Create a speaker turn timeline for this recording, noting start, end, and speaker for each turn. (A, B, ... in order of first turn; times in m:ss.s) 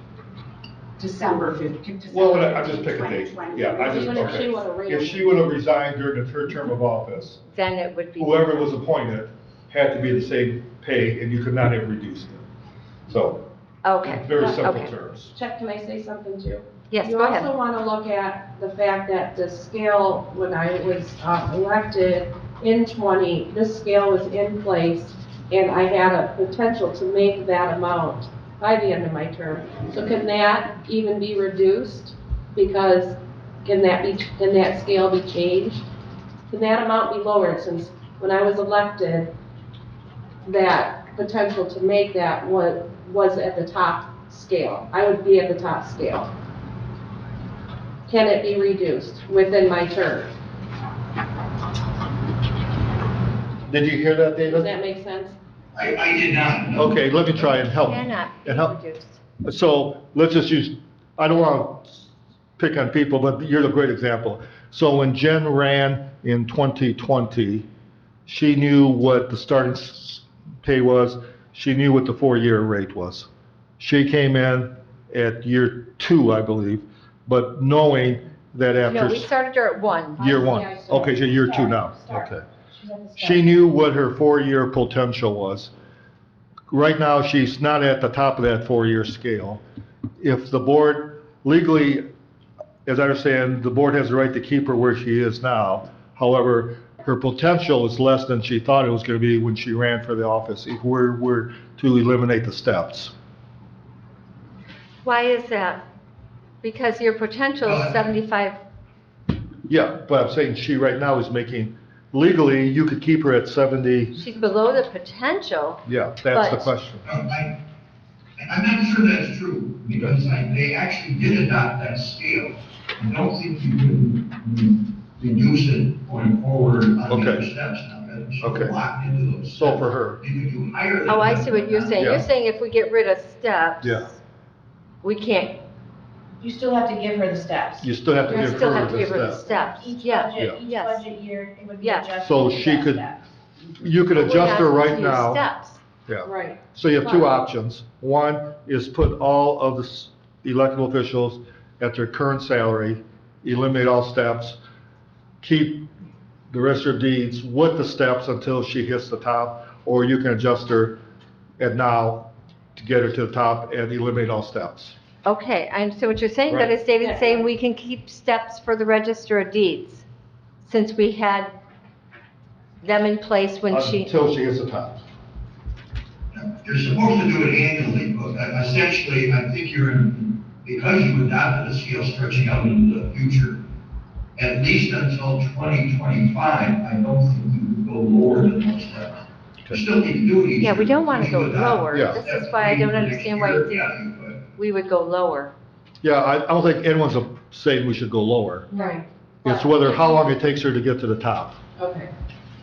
0:01.0-0:04.3 A
0:02.0-0:07.4 B
0:03.8-0:05.4 C
0:07.5-0:08.7 D
0:08.2-0:12.4 B
0:13.1-0:13.4 B
0:13.8-0:14.9 D
0:14.0-0:15.3 B
0:14.3-0:14.6 C
0:15.3-0:35.8 C
0:16.9-0:17.5 D
0:36.5-0:39.3 C
0:40.4-0:46.3 C
0:48.1-0:50.3 C
0:53.7-0:54.7 B
0:54.4-0:55.4 C
0:55.7-0:57.4 E
0:56.7-0:58.7 B
0:57.7-0:59.2 D
0:59.4-1:02.0 B
1:02.6-1:07.7 B
1:08.2-1:13.3 B
1:13.8-1:19.3 B
1:18.8-1:20.3 D
1:20.2-1:22.4 B
1:20.2-1:21.1 C
1:20.3-1:23.6 A
1:23.2-1:25.7 B
1:26.7-1:29.6 B
1:30.2-1:32.0 B
1:32.8-1:43.1 B
1:45.0-1:45.8 D
1:46.6-1:48.6 D
1:47.6-1:48.0 E
1:49.7-1:54.2 B
1:54.2-1:56.7 D
1:55.8-1:57.1 B
1:57.0-1:57.6 E
1:58.4-2:12.1 E
2:07.1-2:07.5 B
2:08.4-2:08.8 B
2:09.5-2:10.2 B
2:11.1-2:14.2 D
2:12.0-2:12.3 B
2:13.8-2:14.1 B
2:15.0-2:15.6 D
2:16.4-2:17.9 A
2:17.8-2:19.6 B
2:18.2-2:21.0 D
2:19.3-2:23.2 A
2:20.3-2:20.6 B
2:21.8-2:22.1 D
2:22.2-2:23.1 B
2:23.8-2:25.4 B
2:24.0-2:25.8 D
2:26.1-2:34.6 B
2:26.2-2:27.4 C
2:35.4-2:35.9 B
2:36.5-2:41.0 B
2:41.6-2:45.0 B
2:45.2-2:50.0 D
2:46.5-2:46.7 B
2:47.0-2:47.3 A
2:50.6-2:51.5 D
2:52.8-2:54.2 D
2:53.7-2:55.0 B
2:56.3-3:03.6 E
3:04.4-3:14.4 E
3:10.6-3:13.9 D
3:11.9-3:12.2 B
3:14.5-3:15.5 D
3:16.0-3:18.7 B
3:18.7-3:19.0 C
3:18.7-3:20.0 D
3:19.4-3:21.6 B
3:21.8-3:22.1 C